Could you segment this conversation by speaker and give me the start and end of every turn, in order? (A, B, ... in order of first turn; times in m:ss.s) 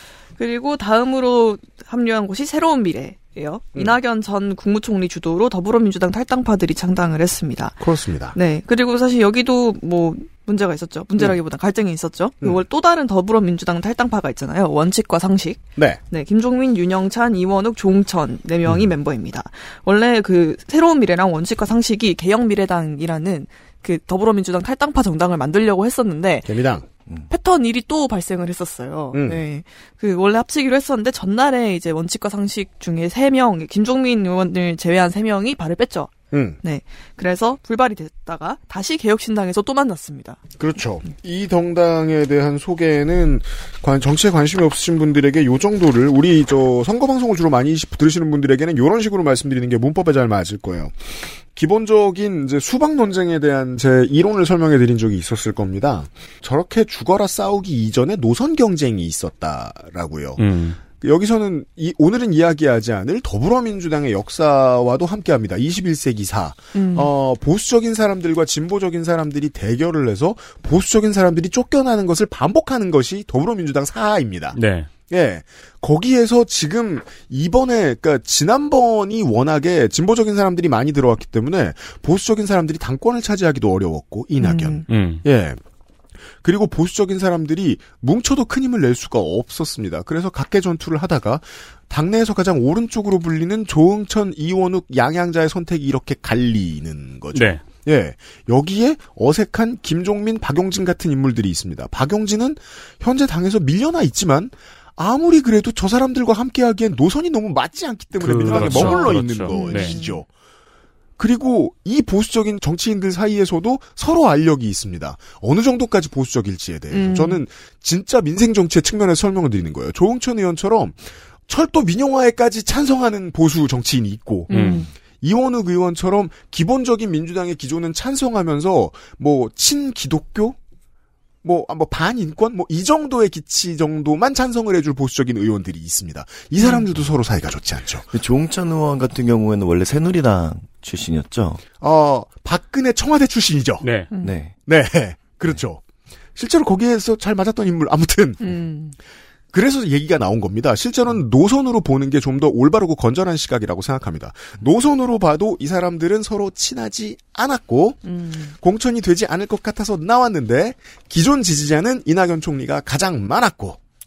0:00.4-0:07.8 A
0:07.8-0:08.4 B
0:08.3-0:26.5 A
0:26.4-0:26.8 B
0:27.3-0:40.4 A
0:29.1-0:29.4 B
0:36.3-0:36.6 B
0:40.6-0:50.9 B
0:51.5-1:00.4 B
1:00.4-1:00.8 C
1:01.0-1:14.6 B
1:06.7-1:07.1 A
1:14.5-1:14.9 C
1:15.1-1:25.6 B
1:24.4-1:24.8 A
1:24.9-1:25.2 C
1:26.4-1:50.3 B
1:37.3-1:37.6 C
1:48.2-1:49.9 C
1:48.4-1:50.2 A
1:51.2-2:10.6 B
1:56.9-1:57.4 A
2:04.5-2:04.8 C
2:04.5-2:04.9 A
2:11.4-2:18.1 B
2:18.1-2:21.6 D
2:21.8-2:23.8 B
2:23.8-2:24.1 C
2:24.2-2:24.5 D
2:24.6-2:25.8 B
2:26.4-2:28.4 B
2:28.4-2:29.0 A
2:29.5-2:38.0 B
2:38.0-2:38.5 A
2:38.6-2:43.8 B